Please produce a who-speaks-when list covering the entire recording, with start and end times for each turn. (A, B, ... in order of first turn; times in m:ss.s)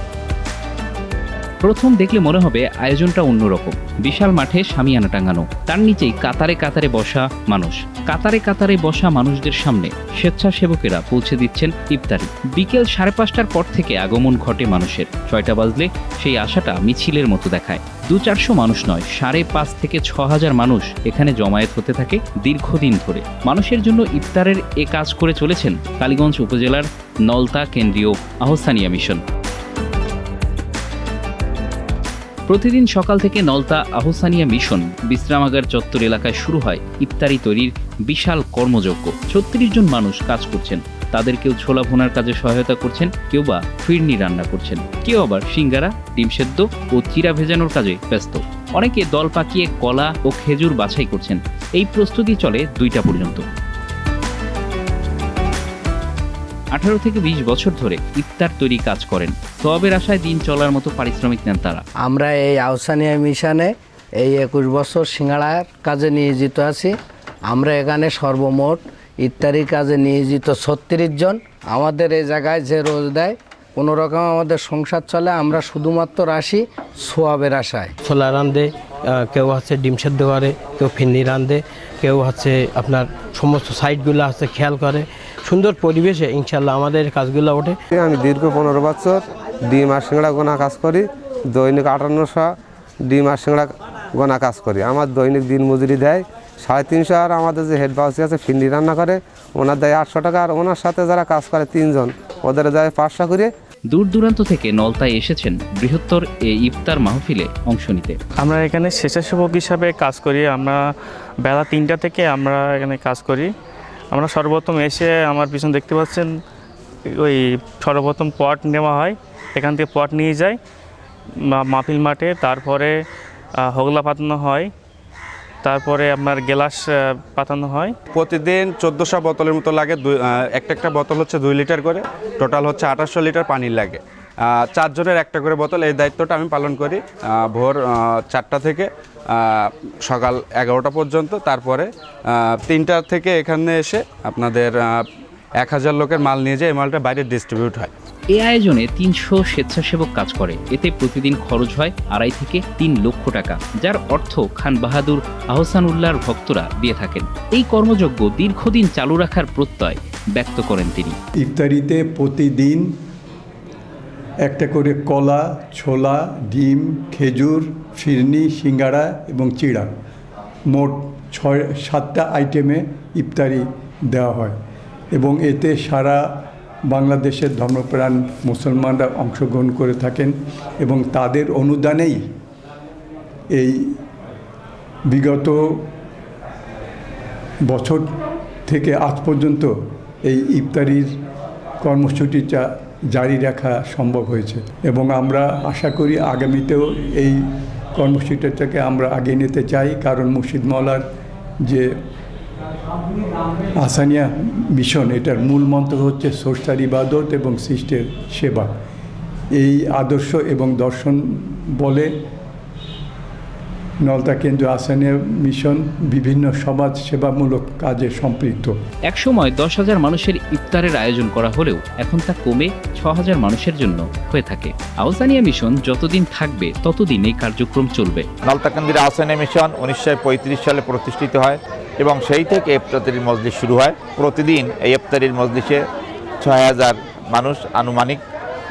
0:01.6-0:29.2 A
0:32.5-0:53.4 A
0:56.7-1:01.8 A
1:02.0-1:06.9 B
1:07.5-1:17.9 B
1:18.0-1:27.8 C
1:27.9-1:32.5 D
1:33.0-1:43.5 D
1:43.9-1:48.2 A
1:48.4-1:50.8 E
1:51.4-1:53.5 E
1:54.1-1:56.3 E
1:57.2-2:00.5 E
2:01.6-2:02.9 E
2:03.7-2:04.7 E
2:05.6-2:06.8 E
2:07.4-2:07.9 E
2:08.1-2:25.0 F
2:25.6-2:27.9 F
2:28.3-2:41.2 A
2:41.4-2:42.9 G
2:44.4-2:49.9 G
2:50.7-2:54.6 G
2:55.1-2:56.3 G
2:56.9-3:02.2 G
3:03.5-3:04.0 G
3:05.1-3:05.8 G
3:07.7-3:08.1 G
3:08.7-3:09.7 G
3:10.2-3:11.2 G
3:11.8-3:17.4 G
3:18.0-3:21.0 G
3:23.8-3:28.7 G
3:29.6-3:32.1 G
3:34.0-3:38.7 G
3:39.1-3:48.3 A
3:48.4-3:55.8 H
3:56.4-3:58.2 H